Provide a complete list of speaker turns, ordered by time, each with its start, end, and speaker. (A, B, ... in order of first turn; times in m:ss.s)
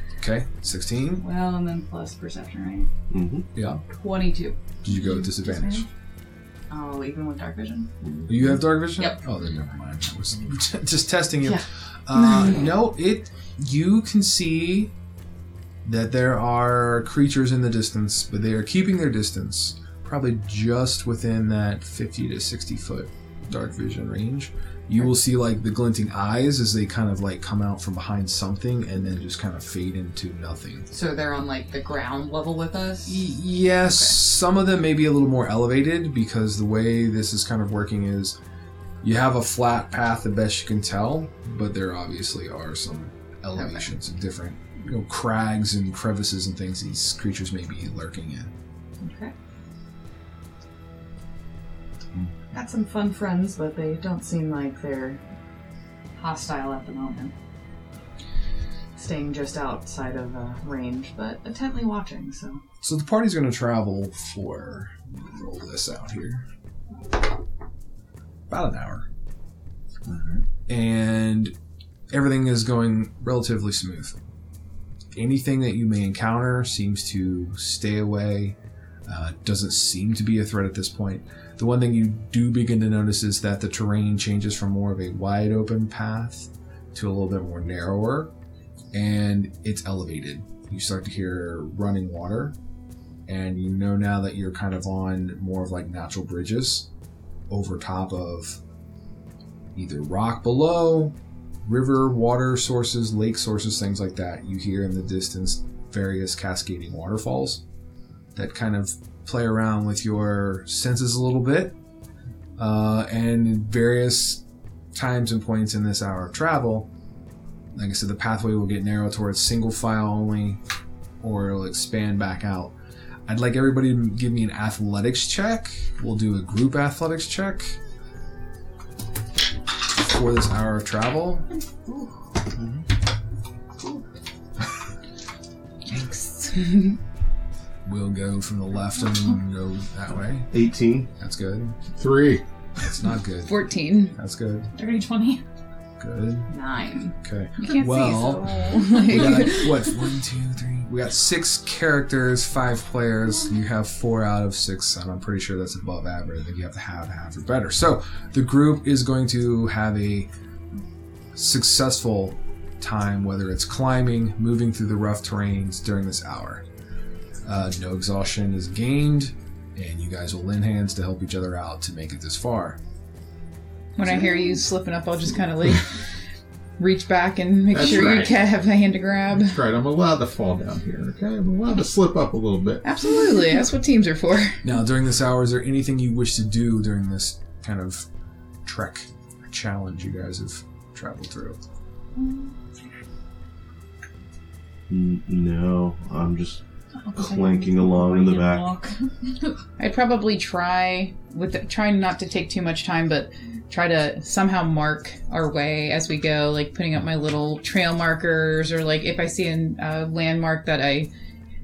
0:00.2-0:01.2 A
0:01.2-0:02.9 B
0:03.1-0:03.5 C
0:03.6-0:03.8 A
0:04.0-0:04.6 B
0:04.8-0:05.9 A
0:05.0-0:05.8 D
0:06.7-0:07.9 B
0:08.0-0:08.6 C
0:08.3-0:14.9 A
0:15.8-0:30.9 A
0:30.9-0:33.2 B
0:33.1-0:38.4 A
0:39.0-0:48.5 A
0:43.5-0:43.8 B
0:49.0-0:49.3 B
0:52.5-0:55.2 B
0:56.2-0:57.3 B
0:59.0-1:02.6 B
1:02.8-1:06.4 A
1:08.5-1:09.1 A
1:10.0-1:10.4 C
1:10.7-1:11.5 A
1:12.1-1:14.2 A
1:15.2-1:28.3 A
1:28.9-1:32.6 A
1:33.3-1:36.9 A
1:37.5-1:38.6 A
1:39.8-1:47.6 A
1:48.4-1:51.8 A
1:52.6-1:54.4 A
1:54.9-1:56.9 A
1:57.7-2:00.6 A
2:01.2-2:02.7 A
2:03.3-2:07.8 A
2:09.9-2:11.5 A
2:12.6-2:12.8 C
2:15.9-2:17.0 E
2:17.8-2:20.5 A
2:20.5-2:21.1 C
2:21.2-2:21.8 A
2:22.0-2:22.4 F
2:22.8-2:24.7 A
2:23.5-2:24.2 E
2:24.7-2:25.4 D
2:26.0-2:26.5 A
2:26.5-2:27.2 B
2:27.2-2:40.3 A
2:27.6-2:29.7 E
2:41.3-2:46.6 A
2:47.4-2:52.8 A
2:54.0-2:56.0 E
2:56.8-2:59.6 E
2:57.7-2:58.3 F
2:59.4-3:02.8 F
3:02.8-3:04.6 E
3:04.6-3:08.1 A
3:08.6-3:11.6 A
3:14.9-3:16.6 C
3:17.0-3:19.5 D
3:17.2-3:18.7 C
3:19.8-3:31.1 E